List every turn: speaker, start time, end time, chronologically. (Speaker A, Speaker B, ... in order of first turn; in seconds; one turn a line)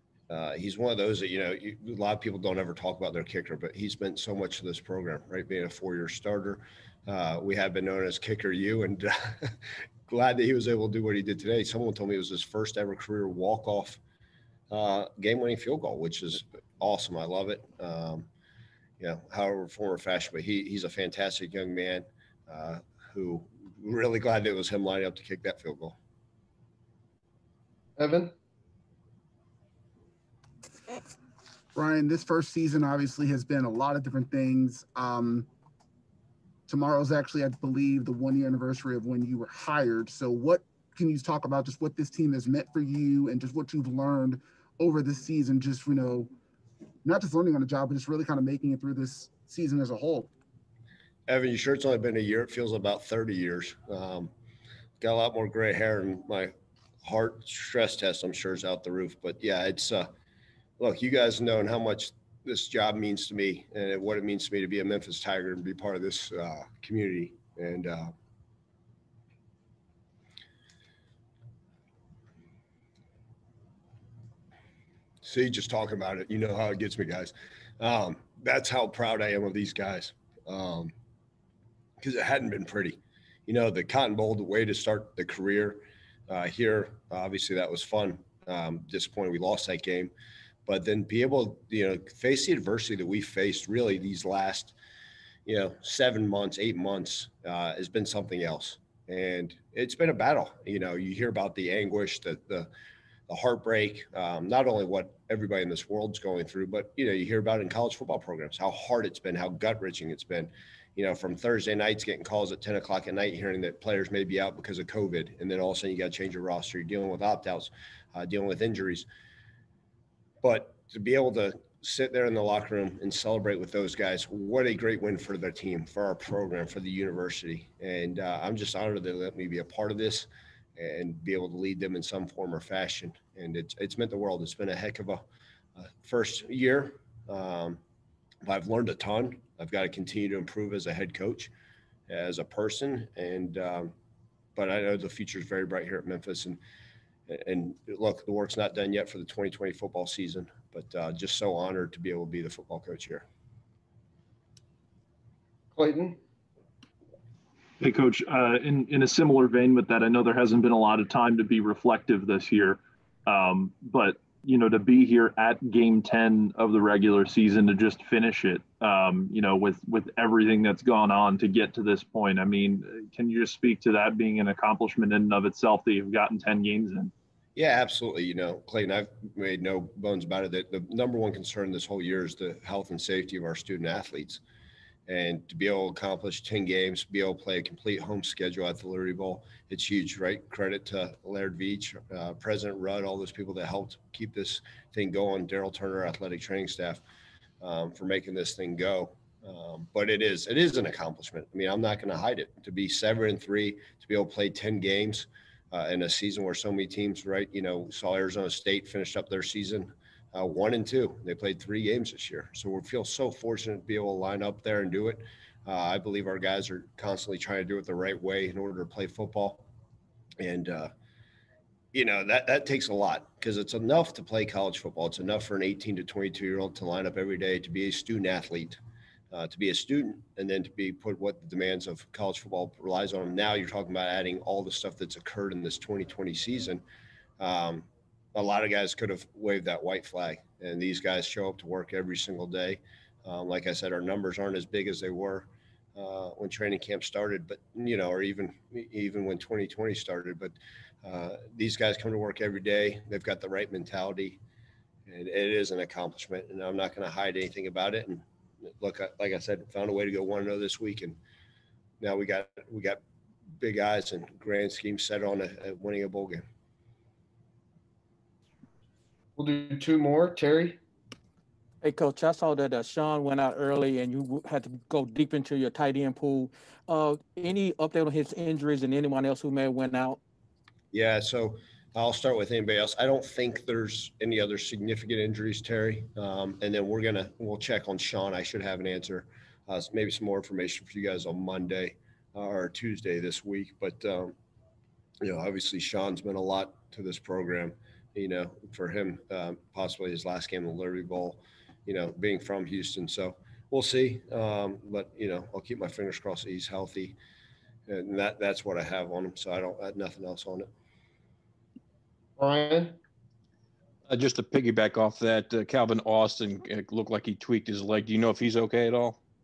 Speaker A: 0.3-9.6
Speaker A: 10.1-14.0
Speaker A: 14.7-18.3
Speaker A: 19.0-26.0
Speaker B: 28.0-28.3
Speaker C: 31.8-35.5
Speaker C: 36.7-46.3
Speaker C: 47.0-50.3
Speaker A: 51.3-54.3
Speaker A: 55.0-60.1
Speaker A: 60.8-68.1
Speaker A: 75.2-80.9
Speaker A: 82.0-90.1
Speaker A: 90.7-94.8
Speaker A: 95.5-102.7
Speaker A: 103.3-119.1
Speaker A: 120.4-135.2
Speaker A: 135.8-137.8
Speaker A: 138.4-141.5
Speaker A: 142.1-143.9
Speaker A: 144.6-146.6
Speaker A: 147.3-153.2
Speaker B: 155.7-156.2
Speaker D: 157.8-177.1
Speaker A: 177.6-184.4
Speaker A: 185.1-197.0
Speaker A: 197.6-219.7
Speaker A: 220.4-220.9
Speaker A: 221.9-228.8
Speaker A: 229.3-236.8
Speaker A: 237.4-254.4
Speaker A: 255.1-258.2
Speaker A: 258.8-261.2
Speaker A: 262.0-263.0
Speaker A: 263.6-266.4
Speaker B: 269.4-270.8
Speaker E: 271.8-280.2
Speaker A: 280.9-294.3
Speaker A: 295.2-307.2
Speaker A: 307.9-310.7
Speaker B: 312.4-313.0
Speaker F: 314.1-319.2